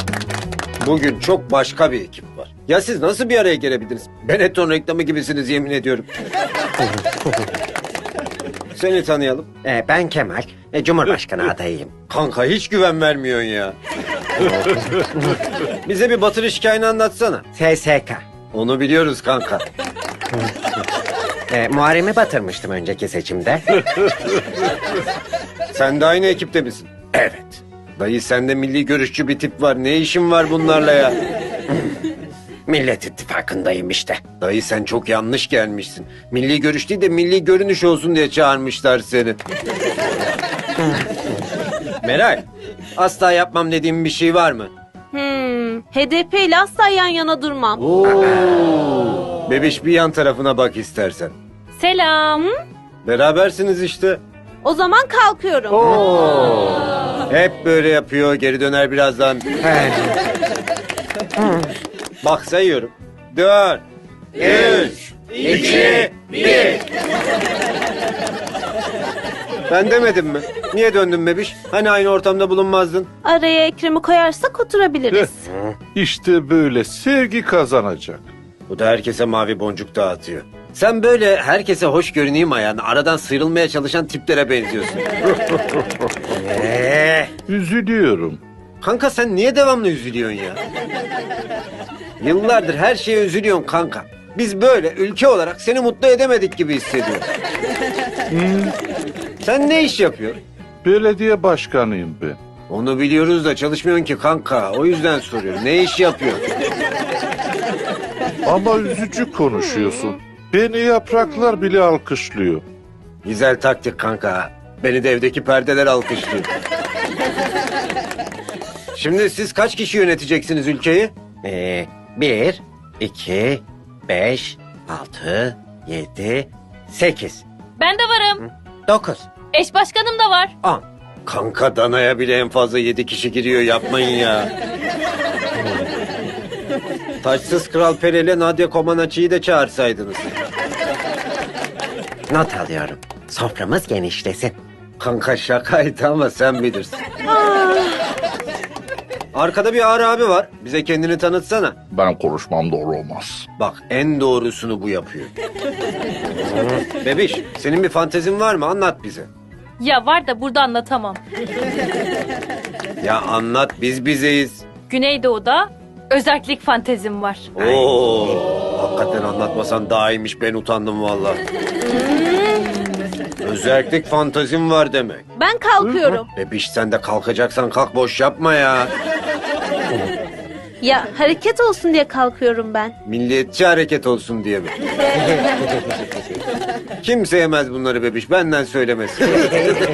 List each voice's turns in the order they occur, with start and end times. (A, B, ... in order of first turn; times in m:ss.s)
0:00.8-0:06.1 A
0:08.8-0:09.5 A
0:09.6-0:11.9 B
0:12.1-0:13.8 A
0:14.4-0:15.4 B
0:15.8-0:17.5 A
0:17.5-0:18.2 B
0:18.5-0:19.6 A
0:21.5-0:23.6 B
0:25.7-0:31.2 A
0:32.7-0:34.2 B
0:34.4-0:39.4 A
0:42.0-0:42.4 A
0:43.0-0:44.7 A
0:45.1-0:47.9 C
0:48.0-0:51.4 A
0:51.8-0:52.5 D
0:53.0-0:54.2 A
0:54.6-0:56.0 C
0:55.8-0:56.1 A
0:56.0-0:56.6 E
0:57.3-0:59.5 A
0:59.6-1:00.1 B
1:02.2-1:03.8 A
1:04.4-1:06.8 A
1:09.7-1:13.1 A
1:13.2-1:15.5 C
1:15.5-1:15.8 A
1:16.0-1:18.3 E
1:18.7-1:25.1 A
1:26.3-1:27.3 A
1:27.5-1:28.4 E
1:28.8-1:30.6 A
1:32.2-1:37.3 A
1:38.3-1:38.8 E
1:39.4-1:40.4 A
1:40.8-1:42.4 E
1:42.7-1:46.4 A
1:48.4-1:52.6 E
1:53.2-1:56.5 A
1:59.0-2:01.2 A
2:01.4-2:07.4 B
2:07.8-2:08.4 D
2:08.4-2:09.2 B
2:09.5-2:10.5 D
2:11.2-2:14.5 A
2:17.2-2:20.4 A
2:22.3-2:24.6 B
2:25.0-2:27.0 A
2:27.3-2:28.0 C
2:29.3-2:31.8 A
2:31.9-2:33.5 E
2:33.6-2:35.3 A
2:36.8-2:39.3 A
2:39.8-2:41.2 D
2:43.0-2:44.7 A
2:44.9-2:47.5 D
2:47.6-2:51.4 A
2:47.6-2:47.9 B
2:51.8-2:52.7 C
2:53.4-2:55.2 A
2:55.4-2:56.3 C
2:56.4-2:58.9 A
3:00.8-3:02.9 C
3:03.0-3:04.8 A
3:07.0-3:09.7 A